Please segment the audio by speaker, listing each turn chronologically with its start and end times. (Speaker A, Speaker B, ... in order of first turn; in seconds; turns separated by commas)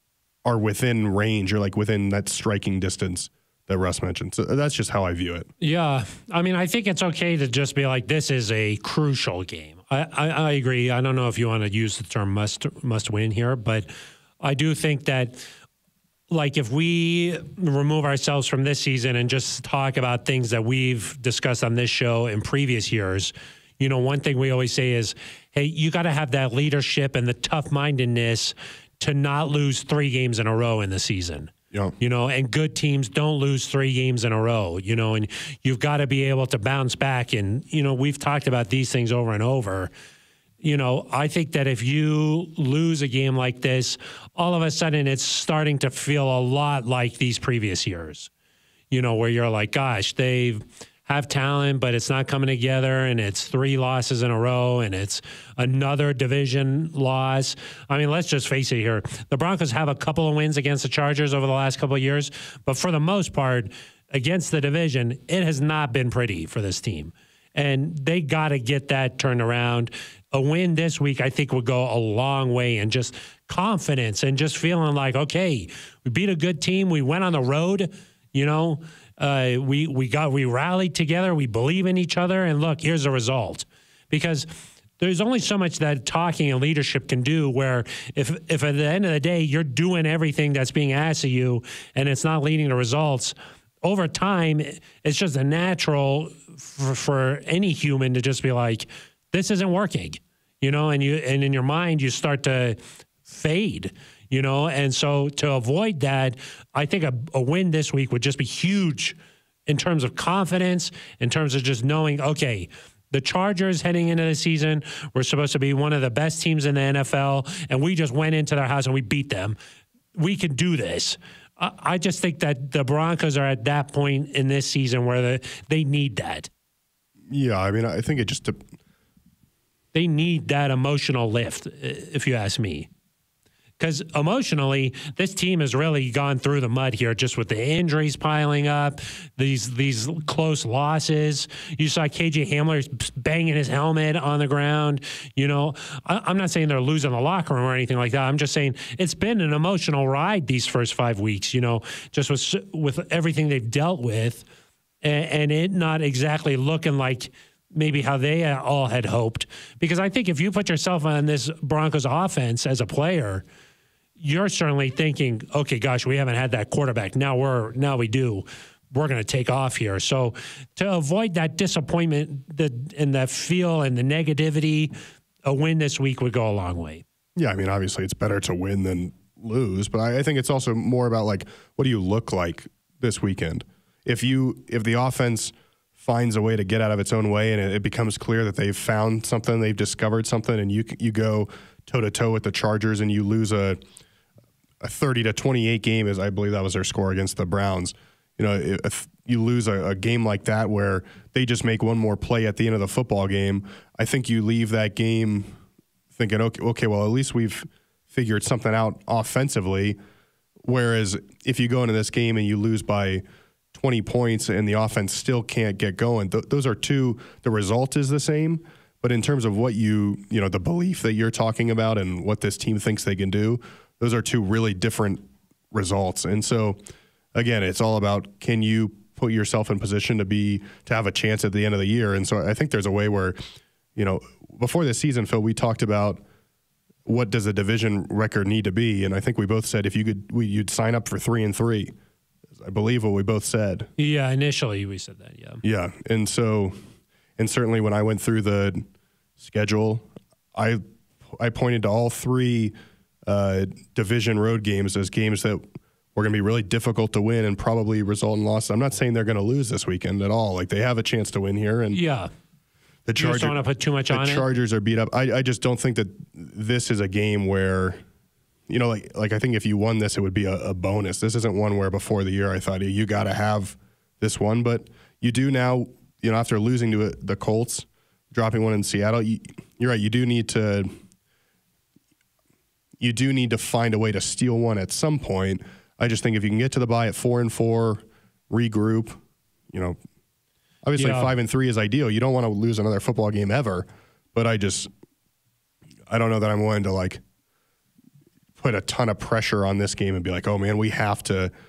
Speaker A: 0.4-5.5, Speaker B: 5.6-13.9, Speaker B: 14.4-15.5, Speaker B: 16.3-39.9, Speaker B: 40.6-48.3, Speaker B: 48.9-84.5, Speaker B: 85.0-119.6, Speaker B: 120.2-126.5, Speaker A: 127.3-128.6, Speaker B: 129.9-132.9, Speaker B: 133.8-154.4, Speaker B: 155.0-163.4, Speaker B: 164.2-174.9, Speaker B: 175.5-177.0, Speaker A: 177.4-193.8, Speaker A: 194.8-205.6, Speaker A: 206.1-210.0, Speaker A: 210.6-226.8, Speaker A: 227.3-233.4, Speaker A: 234.0-236.2, Speaker A: 237.1-241.9, Speaker A: 242.6-243.9, Speaker B: 244.0-245.6, Speaker A: 245.6-246.8, Speaker A: 247.4-248.9, Speaker A: 249.4-252.7, Speaker A: 253.3-262.0, Speaker B: 261.9-262.3, Speaker A: 263.1-263.6, Speaker B: 263.2-264.5, Speaker A: 264.1-268.0, Speaker A: 268.7-280.9, Speaker A: 283.0-289.2, Speaker A: 289.7-290.0, Speaker A: 290.8-294.9, Speaker B: 291.0-291.3, Speaker A: 296.1-297.2, Speaker A: 298.6-301.5